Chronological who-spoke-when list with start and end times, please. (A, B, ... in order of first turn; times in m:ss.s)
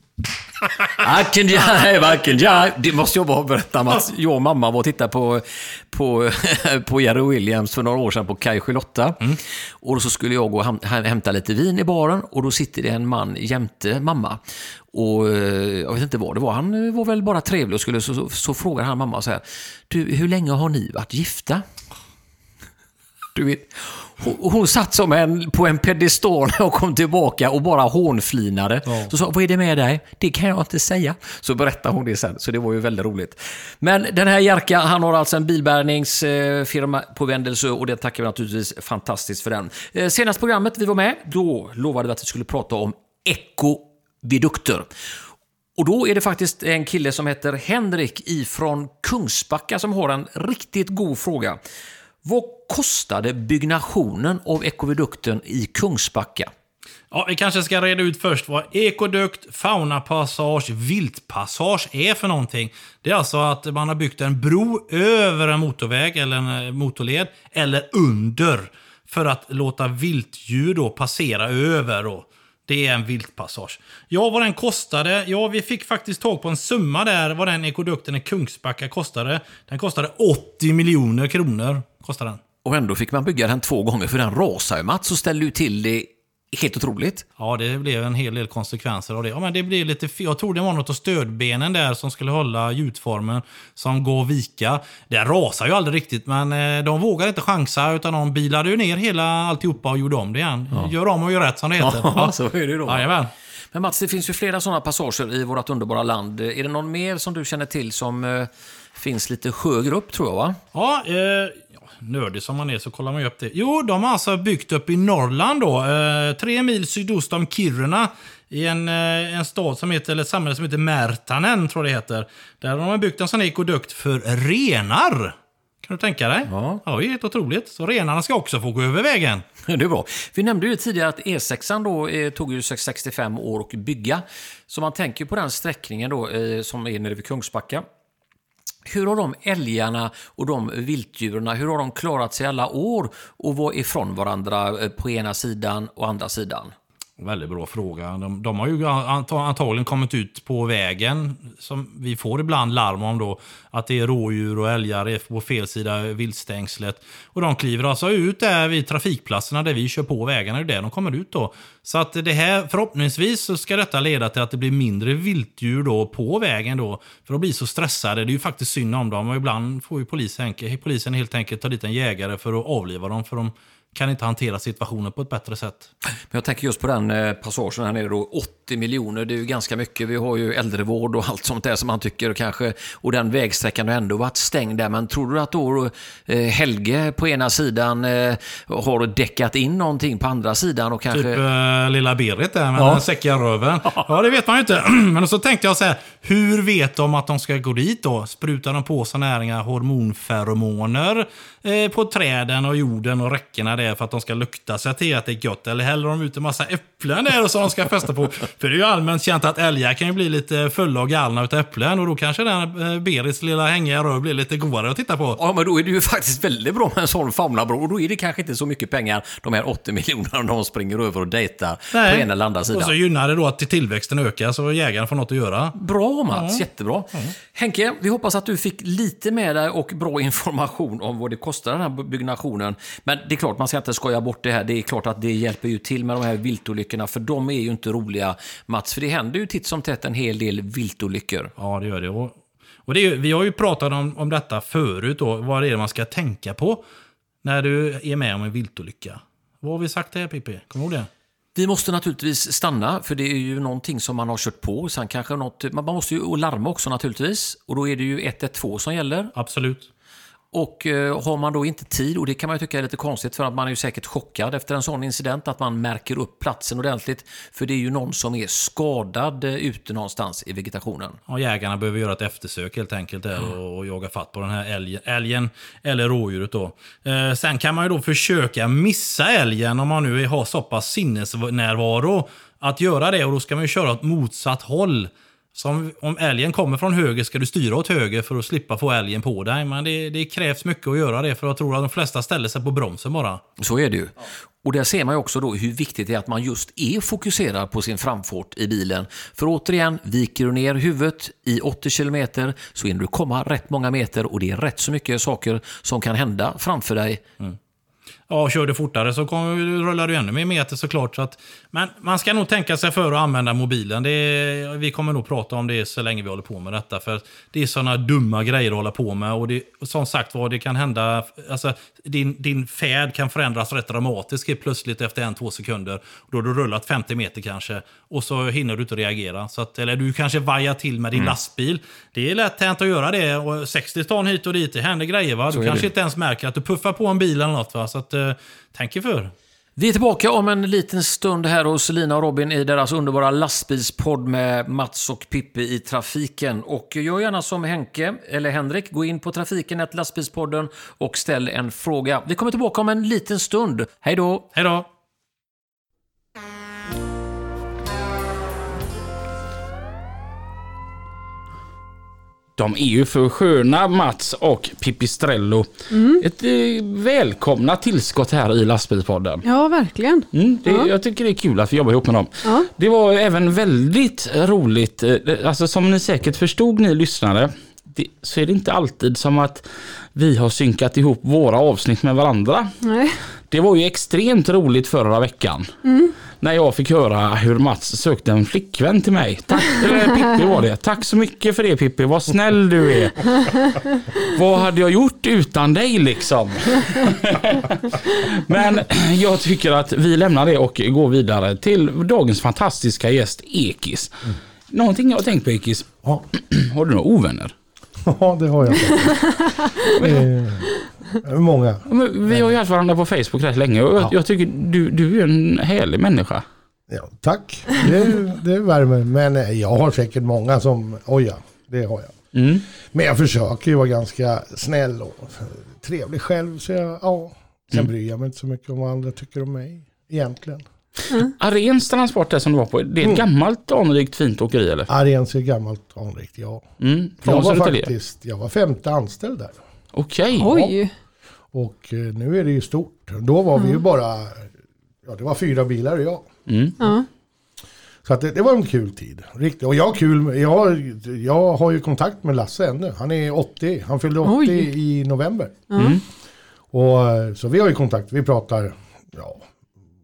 0:01.0-0:14.4 A
0:14.9-0:21.6 A
0:23.3-0:44.9 A
0:45.8-0:51.6 A
0:52.2-0:56.5 A
0:57.1-1:22.4 B
1:22.6-1:27.2 A
1:27.4-1:42.3 B
1:41.8-1:43.1 A
1:42.8-1:43.3 B
1:43.7-1:50.6 A
1:50.7-2:09.5 B
2:06.5-2:06.8 A
2:09.6-2:17.8 A
2:18.9-2:26.7 A
2:27.2-2:55.9 B
2:56.3-3:11.4 A
3:11.1-3:35.4 B
3:12.8-3:13.0 A
3:35.4-3:43.0 A
3:41.9-3:45.7 B
3:45.8-4:01.5 A
3:46.3-3:46.6 B
4:01.6-4:06.8 B
4:07.4-4:11.1 B
4:11.5-4:19.3 A
4:19.3-4:19.9 B
4:20.5-4:31.2 A
4:31.3-4:53.4 B
4:53.6-4:54.1 A
4:54.6-5:07.2 A
5:08.3-5:39.3 B
5:35.5-5:35.9 A
5:39.8-5:54.5 A
5:54.5-5:54.9 B
6:02.6-6:09.4 C
6:05.9-6:06.2 D
6:09.4-6:10.9 D
6:10.3-6:22.7 C
6:22.8-6:23.2 D
6:23.5-6:25.7 C
6:25.8-6:26.1 D
6:26.4-6:33.6 C
6:34.2-6:47.5 C
6:48.0-6:50.7 E
6:49.4-6:49.7 D
6:50.0-6:50.3 C
6:51.2-6:52.5 E
6:51.9-6:56.4 C
6:56.9-7:02.2 E
7:02.3-7:02.6 C
7:02.9-7:10.6 E
7:11.2-7:14.9 C
7:14.9-7:16.6 E
7:16.8-7:17.9 C
7:17.2-7:19.6 E
7:19.9-7:20.6 C
7:20.3-7:20.7 E
7:20.4-7:20.9 D
7:21.5-7:24.5 E
7:25.0-7:26.3 E
7:26.5-7:26.8 C
7:26.8-7:27.1 D
7:28.0-7:35.6 E
7:34.2-7:34.7 D
7:35.7-7:36.0 D
7:35.8-7:36.0 C
7:36.7-7:39.5 E